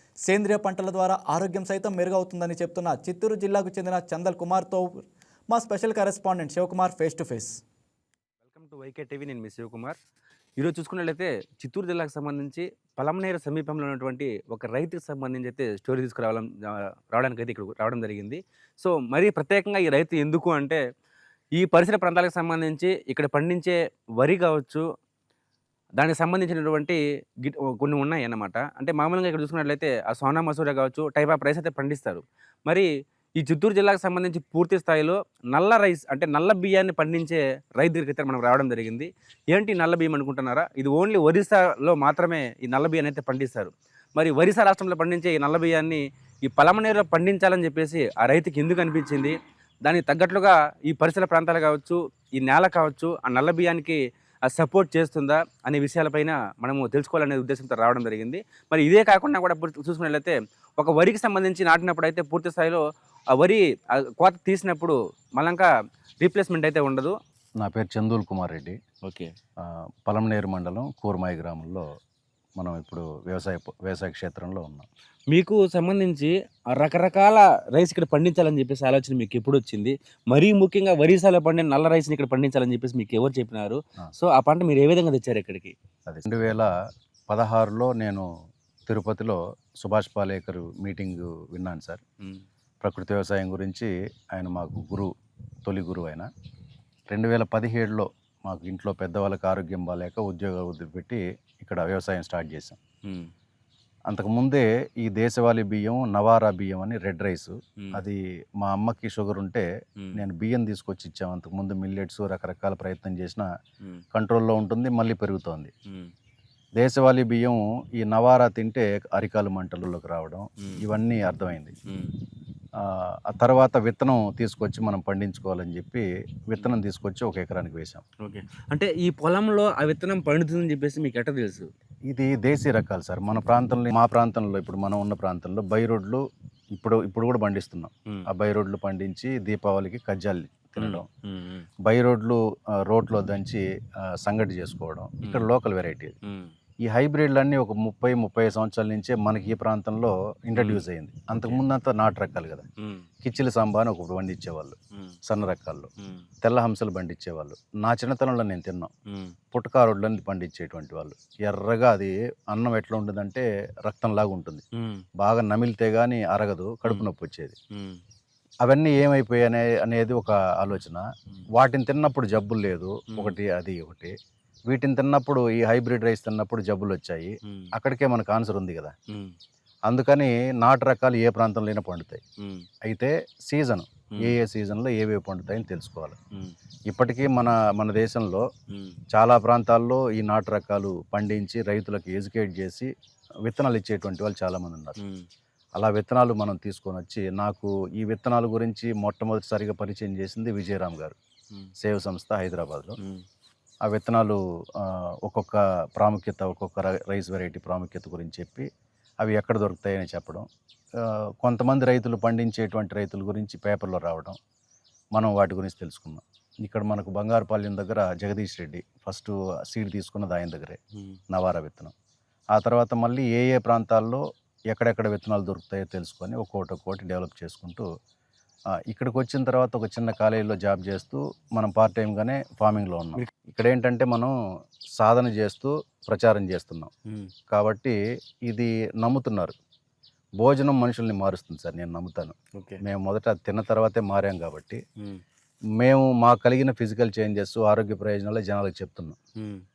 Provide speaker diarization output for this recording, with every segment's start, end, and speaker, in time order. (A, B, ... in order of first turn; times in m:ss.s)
0:00.3-0:07.6 A
0:08.5-0:10.0 B
0:10.6-0:20.8 B
0:21.6-0:24.8 B
0:26.0-0:32.9 B
0:33.4-1:02.8 B
1:03.3-1:05.7 B
1:06.2-1:07.1 B
1:07.6-1:08.8 C
1:09.0-1:09.3 B
1:09.6-1:11.9 C
1:12.6-1:14.9 C
1:15.3-1:25.7 B
1:26.1-1:26.7 C
1:27.3-1:28.3 C
1:28.9-1:32.0 C
1:32.8-1:35.1 C
1:35.6-1:36.3 C
1:37.1-1:42.8 C
1:43.0-1:43.3 B
1:44.1-1:53.5 C
1:54.1-1:55.7 C
1:56.8-2:01.7 C
2:01.9-2:02.1 B
2:02.8-2:08.0 C
2:08.2-2:11.7 B
2:12.1-2:16.2 C
2:16.7-2:21.0 C
2:20.8-2:21.7 B
2:21.8-2:23.6 C
2:24.2-2:26.2 C
2:25.2-2:25.5 B
2:26.2-2:26.5 B
2:26.8-2:32.6 C
2:30.6-2:30.8 B
2:33.2-2:34.8 C
2:35.3-2:35.9 C
2:36.0-2:36.2 B
2:36.4-2:38.9 C
2:39.1-2:39.3 B
2:39.5-2:44.6 C
2:44.8-2:45.0 B
2:45.2-2:47.6 C
2:47.7-2:48.0 B
2:48.6-2:54.1 C
2:54.7-2:58.9 C
2:59.9-3:02.2 C
3:02.4-3:02.6 B
3:02.8-3:06.2 C
3:06.9-3:08.4 C
3:08.7-3:09.0 B
3:09.1-3:12.9 C
3:13.4-3:15.0 C
3:15.0-3:15.2 B
3:15.8-3:21.2 C
3:21.8-3:23.0 C
3:23.9-3:28.7 C
3:29.2-3:30.4 C
3:31.0-3:34.4 C
3:35.1-3:40.8 C
3:41.3-3:41.9 C
3:42.5-3:47.9 C
3:48.9-3:54.3 C
3:55.0-3:56.9 C
3:57.5-3:58.0 C
3:58.5-3:59.5 C
4:00.4-4:04.8 C
4:02.5-4:02.8 B
4:05.8-4:09.2 C
4:09.4-4:09.6 B